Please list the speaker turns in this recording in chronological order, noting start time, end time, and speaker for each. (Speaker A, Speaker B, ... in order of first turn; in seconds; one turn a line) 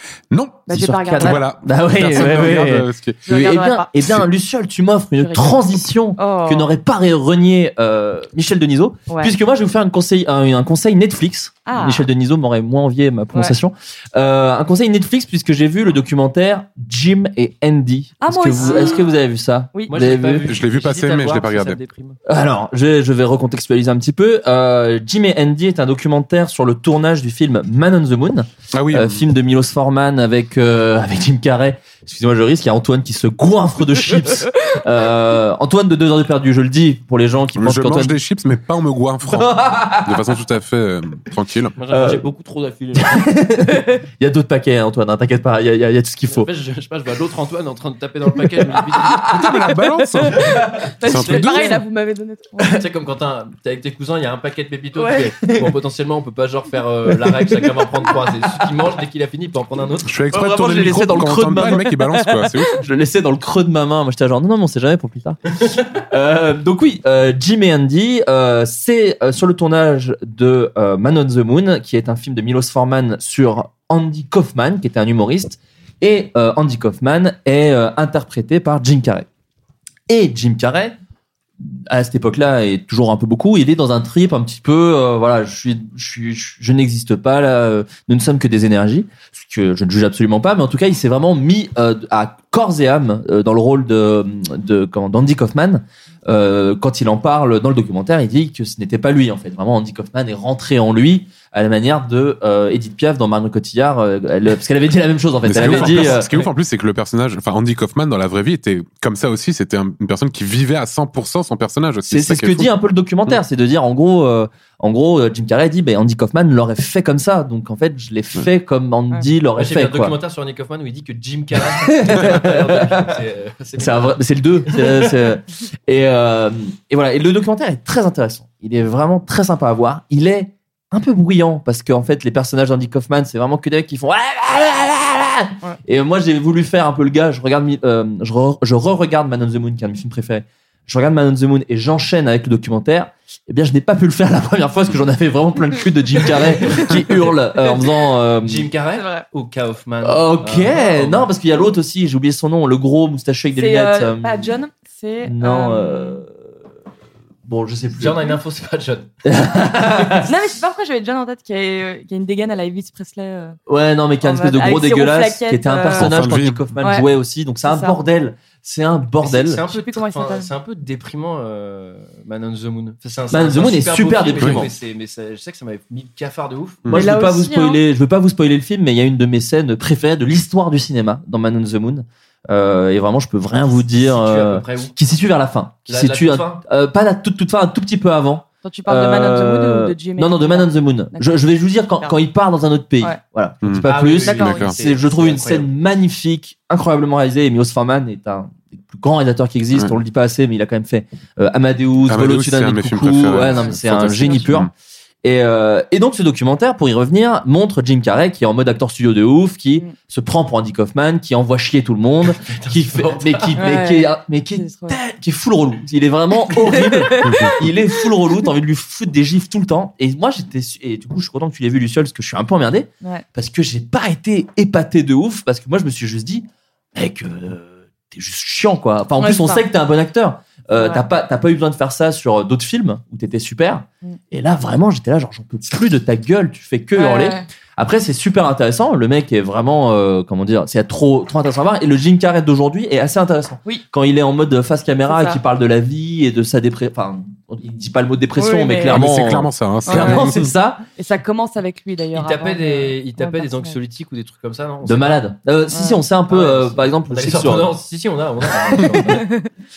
Speaker A: 0.3-3.2
Speaker B: 0.7-1.4
Speaker C: 0.7-20.5
Speaker B: 3.2-3.9
Speaker B: 5.2-5.6
Speaker B: 6.2-6.7
Speaker B: 9.1-9.3
Speaker B: 11.7-12.0
Speaker B: 18.2-19.1
Speaker D: 19.9-22.2
Speaker A: 20.5-21.8
Speaker C: 22.2-38.2
Speaker A: 28.7-29.2
Speaker A: 37.5-41.7
Speaker C: 39.2-40.2
Speaker D: 41.8-43.3
Speaker C: 41.9-42.3
Speaker C: 42.9-46.5
Speaker D: 46.3-49.2
Speaker C: 48.6-49.5
Speaker A: 49.4-51.8
Speaker B: 49.7-52.7
Speaker C: 50.4-50.7
Speaker D: 52.6-60.1
Speaker B: 55.0-55.3
Speaker C: 57.1-57.8
Speaker A: 60.0-62.8
Speaker C: 60.3-61.9
Speaker C: 62.8-79.3
Speaker C: 80.1-81.0
Speaker C: 81.6-106.3
Speaker A: 105.4-112.7
Speaker D: 105.5-106.5
Speaker C: 112.1-120.2
Speaker D: 119.6-125.0
Speaker C: 121.8-123.1
Speaker C: 123.8-148.7
Speaker D: 148.4-151.3
Speaker B: 148.9-149.2
Speaker C: 150.0-154.5
Speaker B: 153.5-156.2
Speaker C: 155.2-156.5
Speaker C: 157.4-158.4
Speaker D: 157.9-159.1
Speaker C: 159.2-160.3
Speaker D: 159.8-160.3
Speaker B: 160.2-163.6
Speaker C: 163.7-169.6
Speaker B: 164.2-166.2
Speaker A: 165.9-166.7
Speaker B: 166.8-167.1
Speaker B: 167.6-168.0
Speaker D: 169.2-176.9
Speaker B: 169.7-170.5
Speaker C: 173.3-174.7
Speaker A: 174.4-174.7
Speaker C: 176.9-204.7
Speaker B: 176.9-177.8
Speaker D: 183.7-184.9
Speaker D: 185.8-186.6
Speaker B: 188.6-192.2
Speaker A: 193.6-194.8
Speaker D: 193.8-195.7
Speaker B: 194.2-194.6
Speaker A: 202.1-204.7
Speaker B: 203.4-203.7
Speaker C: 205.2-250.8
Speaker D: 212.5-213.7
Speaker B: 213.6-215.0
Speaker B: 216.6-217.5
Speaker B: 229.2-229.7
Speaker B: 230.7-231.0
Speaker B: 236.9-237.5
Speaker B: 245.1-245.4
Speaker B: 248.4-249.0
Speaker A: 248.9-250.5
Speaker B: 249.9-250.4
Speaker B: 250.9-253.8
Speaker D: 252.1-255.2
Speaker C: 254.8-257.7
Speaker B: 255.7-256.0
Speaker D: 256.3-259.2
Speaker B: 259.1-259.5